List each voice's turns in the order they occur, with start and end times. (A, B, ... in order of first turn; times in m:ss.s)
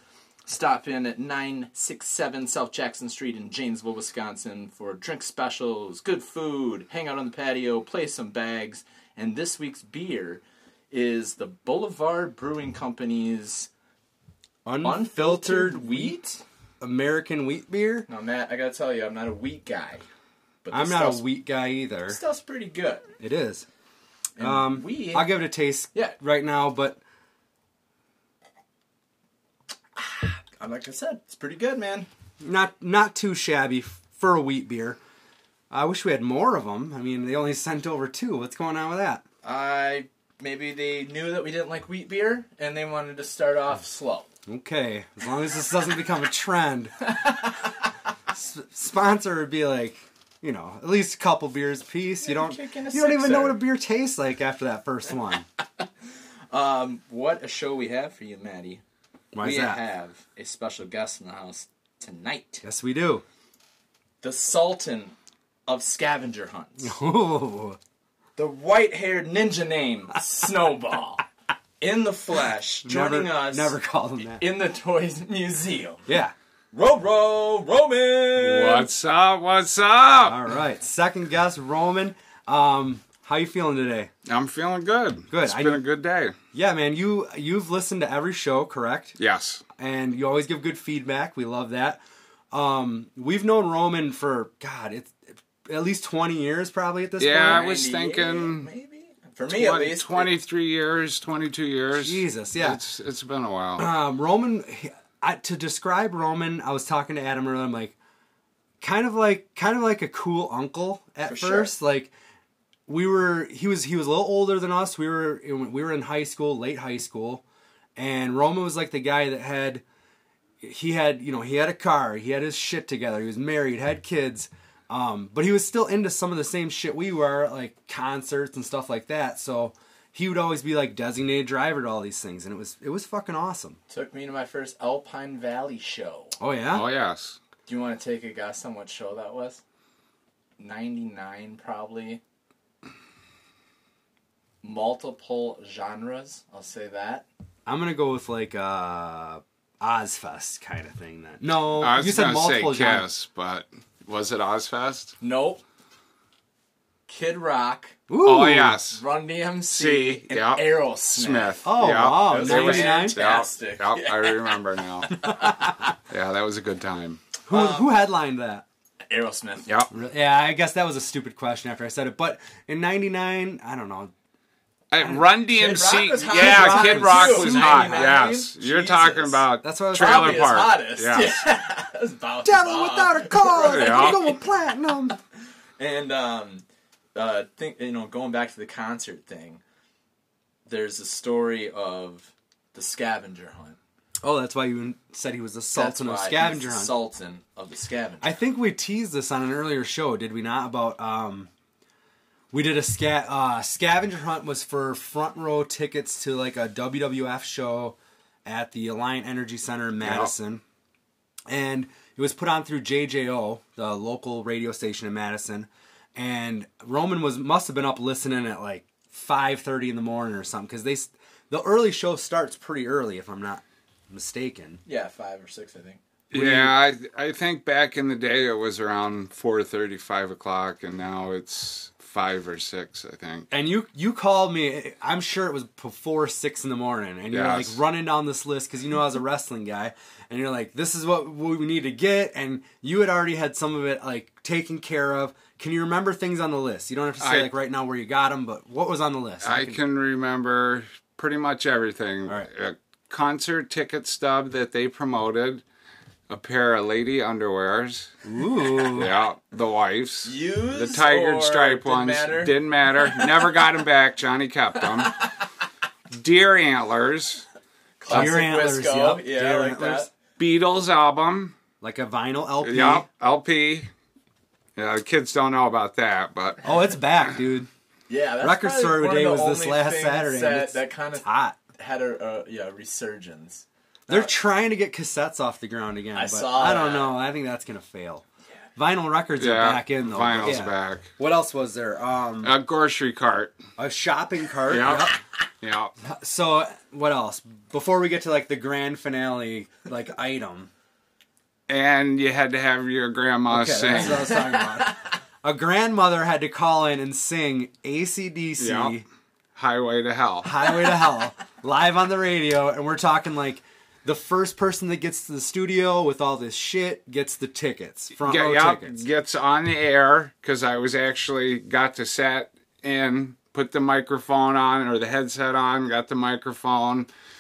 0:00.4-0:13.7 A
0:14.6-0:16.2 B
0:14.8-0:16.4 A
0:16.8-0:18.1 B
0:18.1-0:20.0 A
0:20.6-0:21.2 A
0:20.7-0:22.2 B
0:22.1-0:23.0 A
0:23.2-0:23.6 B
0:24.4-0:25.3 A
0:24.4-0:27.0 B
0:30.0-0:32.1 A
0:32.4-0:35.0 B
0:35.7-0:39.2 B
0:39.4-0:44.2 A
0:44.5-0:46.9 B
0:48.3-0:55.4 B
0:52.2-0:53.6 A
0:56.5-0:58.8 A
0:59.3-0:59.8 B
0:59.4-1:02.6 A
1:02.6-1:03.2 B
1:04.2-1:05.1 A
1:05.6-1:06.9 A
1:06.8-1:07.8 B
1:08.4-1:11.2 A
1:11.8-1:13.7 A
1:12.8-1:14.4 B
1:14.4-1:16.0 A
1:16.1-1:16.3 B
1:16.7-1:18.9 A
1:18.4-1:20.4 C
1:20.2-1:24.1 B
1:24.2-1:26.4 C
1:25.3-1:25.8 B
1:26.5-1:29.2 B
1:29.2-1:29.6 C
1:29.8-1:37.6 B
1:37.2-1:38.7 C
1:37.4-1:40.3 A
1:39.5-1:43.9 C
1:42.0-1:42.8 B
1:43.8-1:47.9 B
1:48.8-1:52.1 B
1:51.2-1:51.7 A
1:52.9-1:57.4 B
1:58.0-1:59.8 B
2:00.6-2:13.8 B
2:13.9-2:16.4 A
2:16.4-2:16.8 B
2:16.7-2:17.4 C
2:17.7-2:19.6 A
2:20.6-2:22.2 A
2:24.6-2:27.3 A
2:27.6-2:33.0 B
2:31.8-2:35.1 C
2:35.2-2:35.6 A
2:37.1-2:38.0 A
2:38.1-2:38.8 B
2:38.2-2:39.0 C
2:38.9-2:41.6 A
2:39.7-2:45.3 C
2:41.6-2:43.2 B
2:42.3-2:44.6 A
2:45.3-2:45.7 B
2:46.1-2:47.2 C
2:47.5-2:48.6 B
2:47.5-2:47.8 A
2:49.1-2:49.7 A
2:49.9-2:54.1 B
2:54.9-3:01.4 C
2:55.0-2:58.3 B
2:55.5-3:04.3 A
2:59.6-3:00.5 B
3:02.4-3:05.2 B
3:03.6-3:04.2 C
3:05.8-3:06.6 A
3:07.1-3:09.6 A
3:10.6-3:13.8 A
3:14.2-3:16.9 B
3:15.7-3:18.3 A
3:18.2-3:21.5 B
3:22.5-3:30.6 B
3:30.0-3:30.3 C
3:31.5-3:44.8 B
3:44.8-3:46.0 A
3:46.3-3:53.5 C
3:46.3-3:46.7 B
3:53.5-4:09.8 B
3:57.3-3:57.8 C
4:07.2-4:07.5 C
4:09.4-4:15.6 C
4:16.3-4:18.1 C
4:18.2-4:19.1 B
4:18.9-4:25.2 C
4:20.2-4:22.5 A
4:26.1-4:27.4 C
4:28.0-4:30.1 A
4:28.1-4:30.1 B
4:30.4-4:31.5 C
4:31.8-4:33.0 B
4:32.6-4:33.9 C
4:34.8-4:36.6 C
4:36.6-4:37.7 B
4:38.1-4:44.3 A
4:38.4-4:41.6 B
4:44.1-4:48.2 B
4:46.1-4:47.1 A
4:48.8-4:52.5 B
4:49.4-4:51.1 C
4:52.4-4:53.6 C
4:53.8-4:55.2 B
4:54.7-4:55.9 C
4:56.0-5:00.7 B
5:01.7-5:04.4 C
5:03.5-5:09.0 B
5:04.2-5:05.1 A
5:08.6-5:08.9 C
5:09.6-5:10.6 C
5:10.4-5:19.0 B
5:18.2-5:27.1 C